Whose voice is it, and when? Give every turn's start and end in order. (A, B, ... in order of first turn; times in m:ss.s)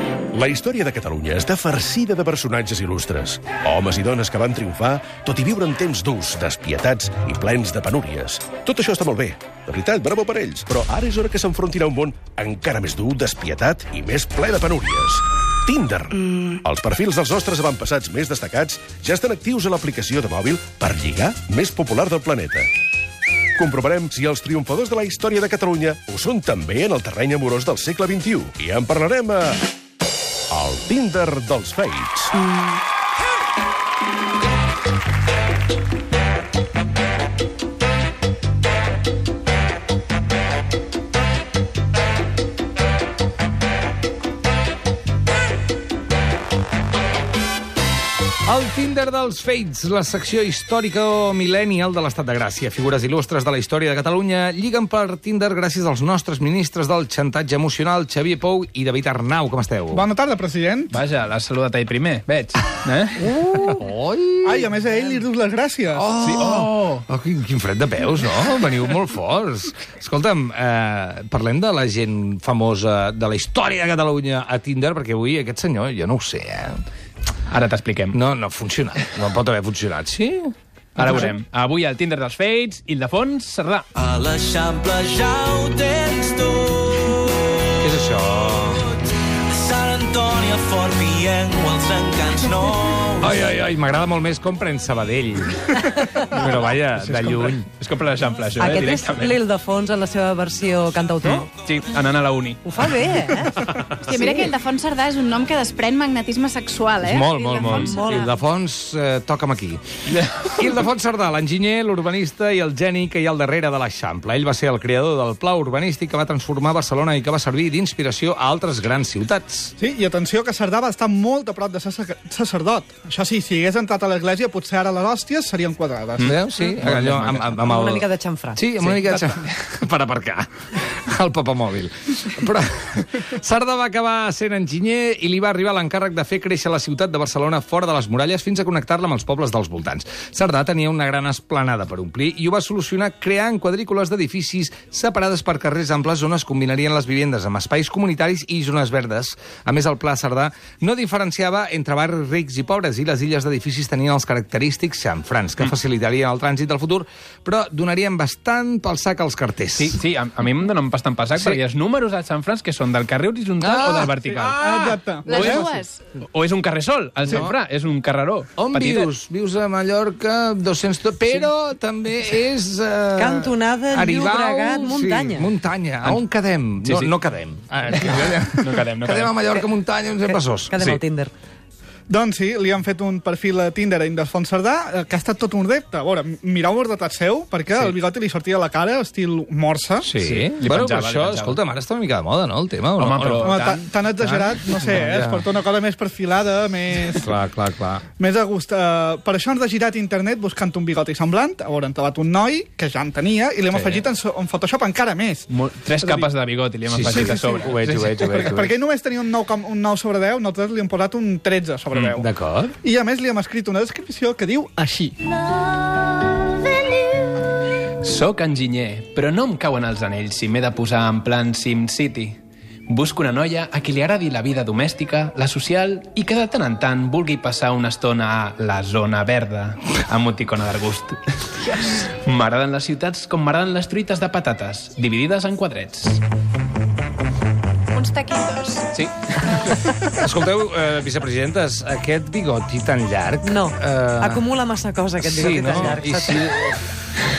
0:00.3-0:22.7 A
0:23.6-0:29.7 A
0:30.5-0:32.4 A
0:48.4-1:00.1 B
0:59.9-1:01.0 C
1:00.9-1:03.7 D
1:03.2-1:04.7 B
1:04.4-1:06.1 C
1:05.9-1:16.8 B
1:06.2-1:07.0 D
1:17.5-1:18.2 D
1:18.1-1:21.3 B
1:21.0-1:23.9 D
1:24.0-1:27.3 E
1:27.8-1:28.9 B
1:29.5-1:33.3 E
1:33.2-1:37.6 B
1:37.0-1:39.4 D
1:38.6-1:41.5 F
1:41.2-1:42.6 D
1:42.6-1:44.5 F
1:44.0-1:48.3 G
1:47.0-1:49.8 B
1:47.8-1:48.2 F
1:50.2-1:50.5 D
1:50.4-1:59.7 B
1:59.8-2:06.3 C
2:06.2-2:07.6 D
2:06.2-2:40.0 B
2:07.6-2:08.6 F
2:08.8-2:09.5 D
2:39.8-2:44.7 D
2:43.6-2:45.0 B
2:44.3-2:45.7 C
2:45.3-2:46.0 G
2:45.3-2:49.1 D
2:47.3-2:47.6 B
2:48.6-3:01.0 B
2:51.3-2:51.5 D
2:53.2-2:55.5 F
2:56.8-2:57.1 D
2:58.0-2:59.4 D
3:00.2-3:01.3 F
3:02.1-3:10.1 C
3:10.0-3:13.5 B
3:10.2-3:11.6 D
3:13.0-3:13.9 D
3:13.4-3:17.3 C
3:14.2-3:15.5 B
3:17.1-3:18.0 B
3:18.2-3:26.3 C
3:23.7-3:24.1 B
3:25.5-3:28.6 D
3:26.9-3:28.8 B
3:27.0-3:32.3 C
3:32.2-3:32.8 B
3:32.8-3:35.3 C
3:38.0-3:42.4 D
3:42.9-3:56.2 D
3:51.6-3:52.0 G
3:57.9-3:58.9 G
3:58.9-3:59.3 D
4:00.0-4:04.4 B
4:03.4-4:06.5 F
4:05.2-4:06.8 B